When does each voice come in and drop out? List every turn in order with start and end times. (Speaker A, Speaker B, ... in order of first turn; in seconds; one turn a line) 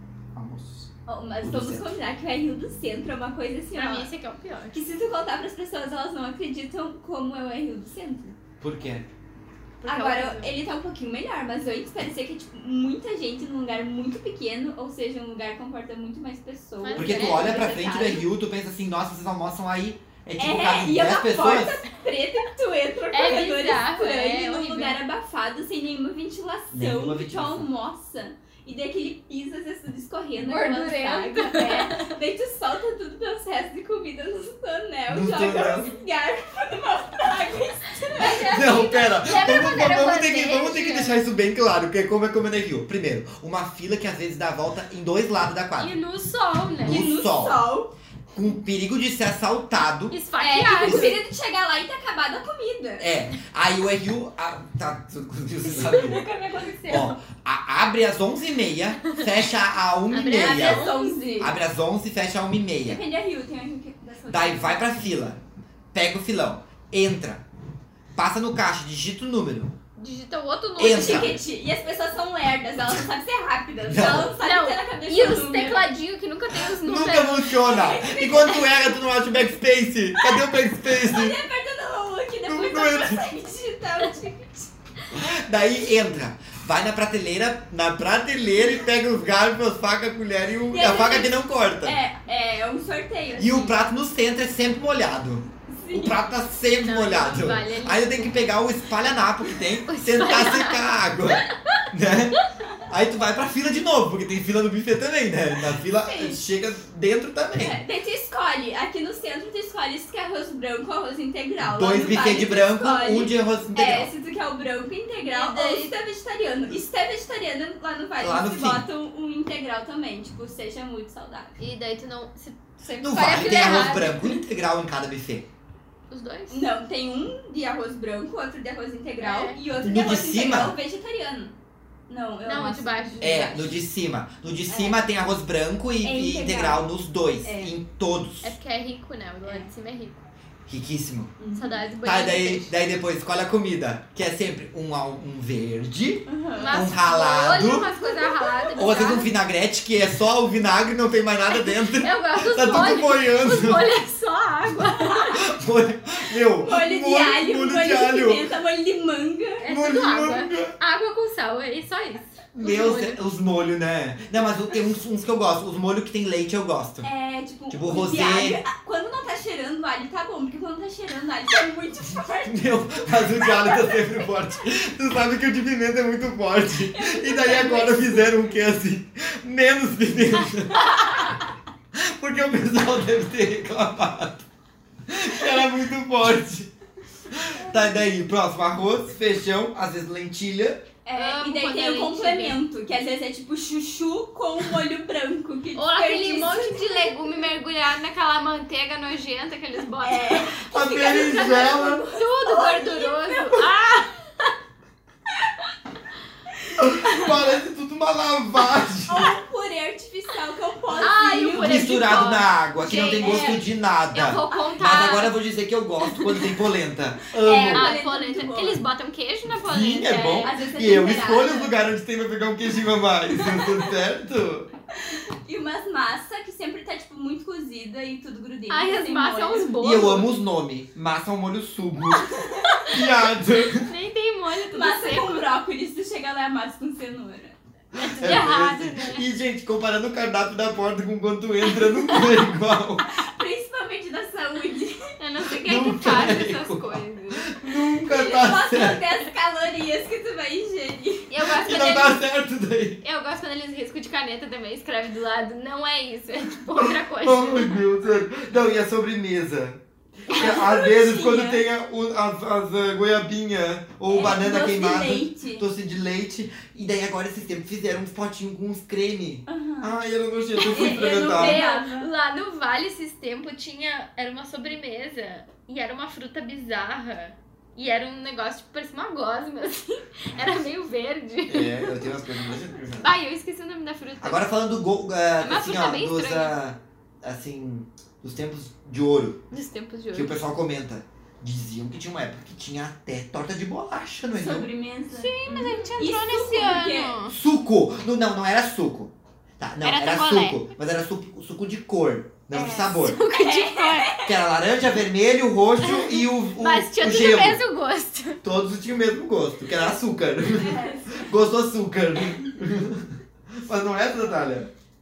Speaker A: 0.3-1.9
Speaker B: 1.1-4.1
Speaker C: 3.7-4.8
Speaker B: 4.7-8.4
Speaker A: 8.6-9.0
Speaker C: 9.8-10.6
Speaker B: 9.8-18.2
Speaker C: 16.8-17.7
Speaker A: 16.9-21.8
Speaker B: 20.4-38.9
Speaker C: 23.1-25.0
Speaker A: 26.7-27.7
Speaker C: 30.4-32.2
Speaker A: 35.1-35.9
Speaker C: 38.1-41.2
Speaker A: 38.2-45.9
Speaker C: 45.8-47.0
Speaker B: 46.8-47.9
Speaker A: 46.8-47.7
Speaker A: 48.3-50.2
Speaker C: 50.1-51.2
Speaker B: 50.4-53.1
Speaker A: 50.8-51.1
Speaker A: 53.0-56.2
Speaker B: 55.6-57.1
Speaker C: 55.9-56.3
Speaker C: 56.8-57.1
Speaker A: 56.9-60.9
Speaker C: 60.1-61.2
Speaker B: 60.3-61.6
Speaker A: 61.4-63.0
Speaker B: 62.8-65.0
Speaker A: 64.3-65.4
Speaker A: 65.9-67.4
Speaker A: 68.2-69.7
Speaker C: 70.0-71.3
Speaker A: 70.8-71.4
Speaker B: 70.8-75.9
Speaker A: 73.8-74.4
Speaker C: 74.4-77.8
Speaker A: 76.5-81.4
Speaker B: 77.6-78.7
Speaker B: 80.2-84.7
Speaker A: 82.5-83.3
Speaker A: 85.1-92.0
Speaker B: 90.7-93.8
Speaker A: 93.3-107.8
Speaker B: 95.7-96.2
Speaker C: 96.8-98.5
Speaker C: 99.8-100.9
Speaker C: 101.5-101.8
Speaker B: 106.0-106.5
Speaker B: 107.6-121.6
Speaker A: 111.7-114.1
Speaker C: 115.2-115.9
Speaker A: 118.2-118.8
Speaker C: 121.6-124.4
Speaker A: 123.0-125.5
Speaker C: 126.1-126.6
Speaker B: 126.5-131.5
Speaker C: 129.2-129.6
Speaker A: 129.8-130.8
Speaker B: 132.1-133.7
Speaker C: 132.4-133.7
Speaker A: 133.2-138.6
Speaker B: 134.7-135.0
Speaker B: 136.0-136.8
Speaker B: 137.4-137.7
Speaker C: 138.4-140.2
Speaker B: 139.4-139.7
Speaker A: 140.7-141.3
Speaker B: 141.4-141.8
Speaker C: 141.5-142.7
Speaker A: 142.0-147.9
Speaker B: 146.3-146.9
Speaker C: 146.5-149.3
Speaker B: 147.9-148.9
Speaker A: 148.8-153.9
Speaker C: 151.5-155.4
Speaker A: 155.3-158.5
Speaker B: 156.7-159.6
Speaker C: 159.6-163.2
Speaker A: 159.6-160.7
Speaker A: 162.5-167.1
Speaker B: 167.0-174.2
Speaker A: 167.7-168.6
Speaker A: 172.4-181.2
Speaker B: 176.9-178.3
Speaker A: 181.9-184.5
Speaker A: 185.1-186.7
Speaker A: 187.3-190.8
Speaker B: 191.0-197.5
Speaker C: 191.2-192.6
Speaker C: 195.7-200.6
Speaker B: 200.0-203.7
Speaker A: 200.5-202.0
Speaker C: 201.2-204.5
Speaker A: 206.8-209.4
Speaker B: 207.0-207.5
Speaker B: 209.1-212.0
Speaker C: 211.0-215.3
Speaker A: 211.5-217.9
Speaker B: 212.8-213.7
Speaker B: 214.5-214.9
Speaker C: 216.1-216.4
Speaker B: 217.4-218.8
Speaker C: 217.5-220.6
Speaker A: 219.4-224.7
Speaker B: 220.4-221.7
Speaker B: 223.4-223.8
Speaker B: 224.9-229.8
Speaker C: 228.7-230.3
Speaker A: 229.8-233.9
Speaker B: 232.2-233.0
Speaker C: 233.7-235.5
Speaker B: 234.7-237.6
Speaker A: 237.9-243.1
Speaker C: 237.9-239.2
Speaker B: 243.1-245.2
Speaker C: 245.2-247.9
Speaker A: 245.4-249.0
Speaker B: 248.1-251.4
Speaker C: 251.3-252.2
Speaker A: 251.5-253.0
Speaker C: 253.0-257.9
Speaker A: 256.8-271.6
Speaker B: 260.3-261.6
Speaker B: 264.1-265.6
Speaker B: 269.5-269.9
Speaker C: 270.6-282.3
Speaker B: 270.7-272.1
Speaker A: 281.4-283.1
Speaker C: 283.0-284.5
Speaker A: 284.2-289.4
Speaker C: 285.4-286.5
Speaker C: 289.5-290.4
Speaker A: 290.1-294.7
Speaker B: 294.3-297.2
Speaker C: 295.1-297.3
Speaker A: 297.3-303.2
Speaker C: 299.8-300.7
Speaker B: 302.5-304.4
Speaker C: 303.0-304.1
Speaker A: 304.2-307.6
Speaker C: 305.8-308.4
Speaker A: 308.4-314.7
Speaker B: 310.6-311.1
Speaker C: 310.6-310.9